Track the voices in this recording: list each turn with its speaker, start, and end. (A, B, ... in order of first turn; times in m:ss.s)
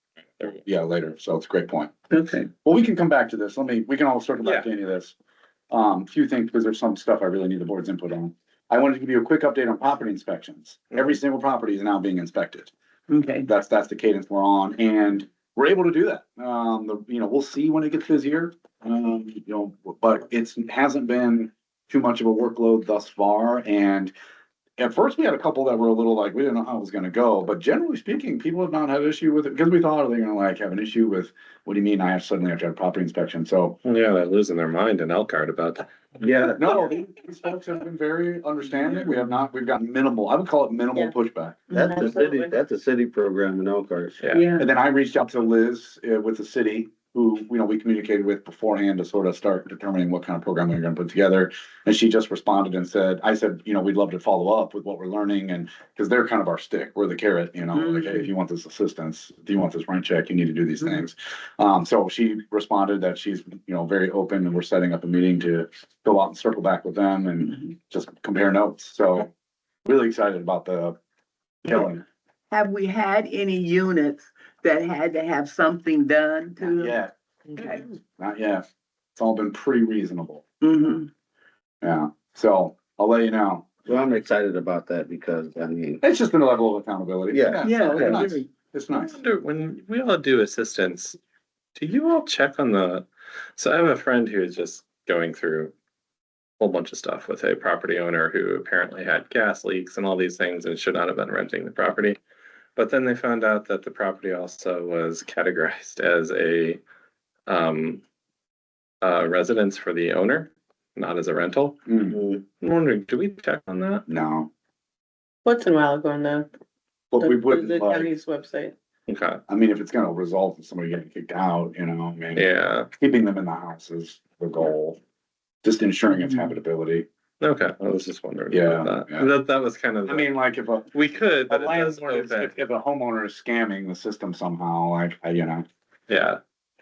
0:00.4-0:01.9 A
0:02.1-0:02.5 B
0:02.6-0:05.2 A
0:04.4-0:04.7 C
0:05.7-0:12.7 A
0:13.1-0:13.5 B
0:13.4-0:24.1 A
0:24.8-0:33.8 A
0:33.8-0:35.9 C
0:36.2-0:36.9 D
0:36.5-0:41.6 A
0:41.7-0:42.5 E
0:41.7-0:44.2 D
0:44.2-0:44.5 C
0:44.3-0:44.7 B
0:44.6-1:09.3 A
0:57.8-0:58.3 B
1:09.8-1:11.0 A
1:11.7-1:12.0 A
1:12.5-1:17.0 B
1:16.6-1:17.1 A
1:17.5-1:17.9 B
1:18.2-1:18.6 A
1:19.2-1:20.4 A
1:20.6-1:21.1 B
1:21.8-1:23.7 A
1:23.8-1:26.0 D
1:26.0-1:29.2 A
1:27.3-1:28.4 D
1:27.6-1:28.5 B
1:28.9-1:31.2 C
1:31.8-1:35.7 C
1:36.6-1:42.2 C
1:42.8-1:46.8 C
1:47.5-1:48.0 C
1:49.0-1:51.8 C
1:51.9-1:52.2 A
1:52.1-1:52.4 D
1:52.6-1:54.0 C
1:54.1-1:54.5 A
1:55.4-1:56.5 E
1:57.1-1:58.1 A
1:57.2-1:58.7 E
1:59.1-1:59.4 C
1:59.5-2:05.0 A
2:02.4-2:02.9 C
2:05.6-2:07.0 A
2:06.2-2:06.5 B
2:07.4-2:10.3 C
2:08.5-2:09.3 A
2:10.0-2:10.9 A
2:10.9-2:12.5 C
2:11.5-2:15.6 A
2:16.1-2:16.4 C